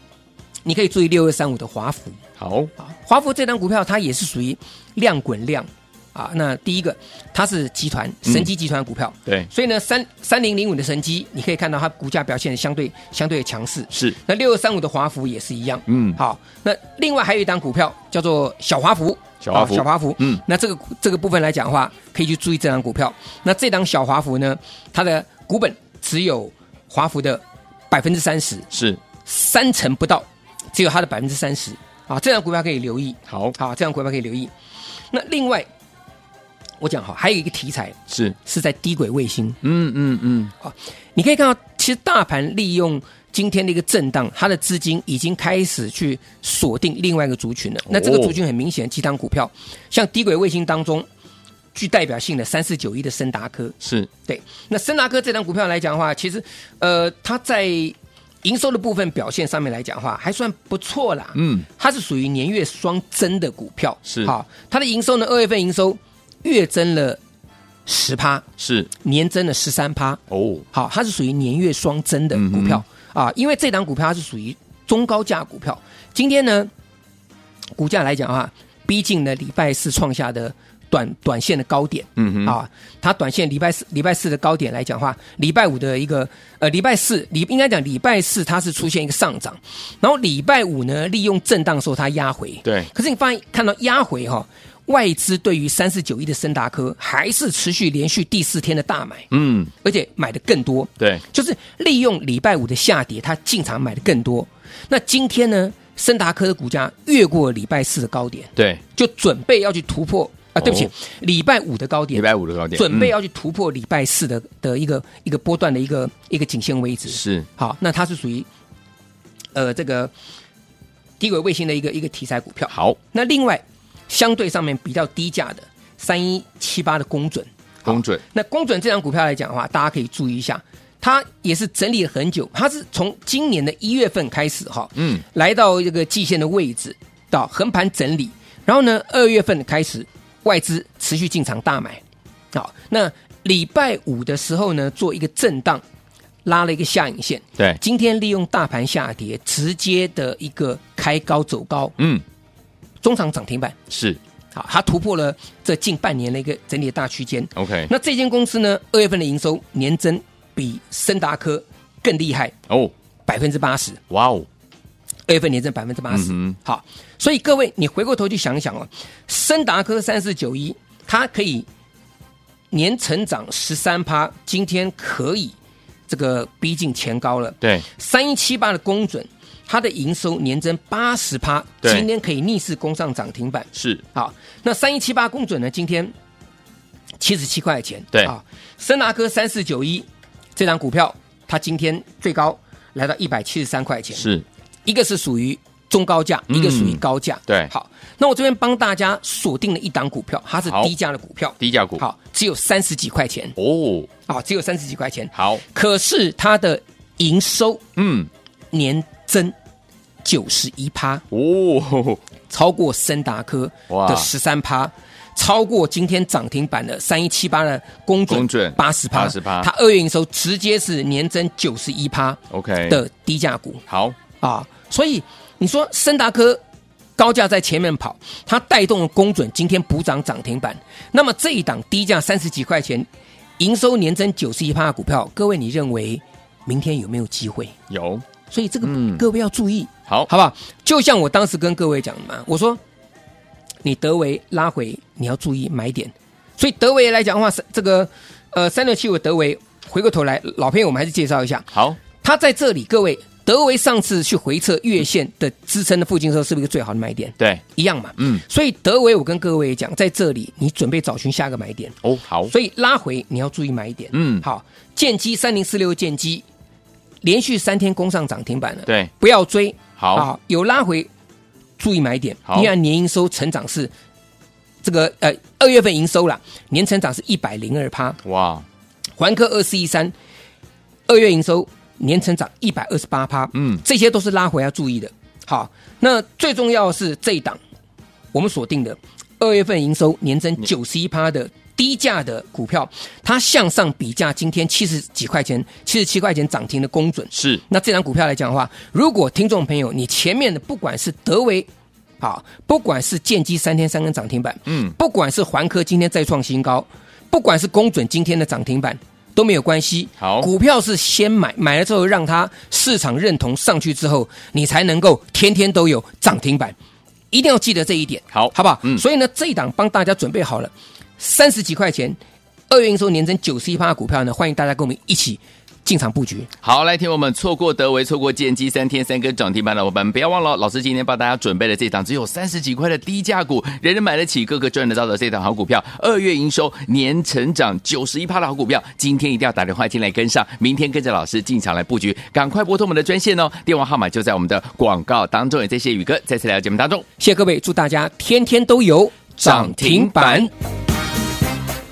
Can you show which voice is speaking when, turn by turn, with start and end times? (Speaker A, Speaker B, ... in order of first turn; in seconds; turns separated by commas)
Speaker A: 0.7-2.2, Speaker B: 2.4-2.7, Speaker A: 2.8-28.7, Speaker B: 13.9-14.2, Speaker B: 15.9-16.2, Speaker B: 19.4-20.4, Speaker B: 28.7-29.0, Speaker A: 29.2-34.5, Speaker B: 33.3-33.5, Speaker A: 35.1-35.7, Speaker A: 36.8-39.6, Speaker B: 38.1-38.4, Speaker B: 39.6-40.5, Speaker A: 40.6-51.1, Speaker B: 47.9-48.4, Speaker A: 51.8-67.2, Speaker B: 53.8-54.1, Speaker B: 61.4-61.7, Speaker B: 64.1-64.3, Speaker A: 67.9-70.2, Speaker B: 68.6-68.9, Speaker B: 70.3-70.7, Speaker A: 70.7-76.7, Speaker B: 72.3-72.8, Speaker A: 77.8-99.3, Speaker B: 82.2-82.6, Speaker B: 99.3-99.7, Speaker A: 99.8-118.5, Speaker B: 108.6-108.8, Speaker B: 110.6-110.9, Speaker B: 112.1-113.1, Speaker B: 117.1-117.5, Speaker A: 119.5-120.1, Speaker A: 121.2-142.0, Speaker B: 122.7-123.0, Speaker B: 127.9-128.2, Speaker B: 135.0-135.2, Speaker A: 142.5-145.8, Speaker A: 146.4-152.0, Speaker A: 153.0-153.8, Speaker B: 153.9-154.2, Speaker A: 154.5-162.6, Speaker B: 157.6-157.9, Speaker A: 163.3-164.0, Speaker B: 164.1-164.5, Speaker A: 165.3-171.7, Speaker B: 166.1-166.6, Speaker A: 172.7-175.6, Speaker A: 176.1-186.1, Speaker B: 183.8-184.0, Speaker A: 187.2-194.3, Speaker B: 194.2-194.4, Speaker A: 194.9-203.6, Speaker B: 196.5-197.7, Speaker B: 201.6-202.0, Speaker B: 203.6-204.1, Speaker A: 204.3-207.8, Speaker B: 205.3-205.6, Speaker B: 208.0-208.3, Speaker A: 208.7-209.6, Speaker A: 210.2-211.2, Speaker B: 211.3-212.2, Speaker A: 212.5-223.8, Speaker B: 213.9-214.3, Speaker B: 218.3-219.7, Speaker B: 222.5-223.0, Speaker B: 223.9-224.2, Speaker A: 224.4-226.6, Speaker A: 227.2-233.1, Speaker A: 233.6-237.8, Speaker B: 237.9-238.2, Speaker A: 238.5-242.8, Speaker B: 238.8-239.2, Speaker A: 243.8-262.0, Speaker B: 251.7-252.0, Speaker B: 258.2-258.4, Speaker B: 262.0-262.5, Speaker A: 262.5-266.4, Speaker B: 264.1-264.4, Speaker A: 267.2-271.1, Speaker B: 270.0-270.3, Speaker A: 271.8-273.9, Speaker B: 272.5-272.7, Speaker A: 274.8-278.2, Speaker B: 278.2-278.6, Speaker A: 279.2-280.1, Speaker A: 281.1-287.6, Speaker B: 283.6-283.8, Speaker A: 288.3-301.7, Speaker B: 297.3-297.6, Speaker A: 302.2-316.8, Speaker B: 304.7-304.9, Speaker B: 310.2-310.5, Speaker A: 317.3-322.2, Speaker B: 318.3-319.0, Speaker A: 322.7-326.5, Speaker B: 326.6-347.1, Speaker A: 347.2-350.5, Speaker B: 349.4-350.5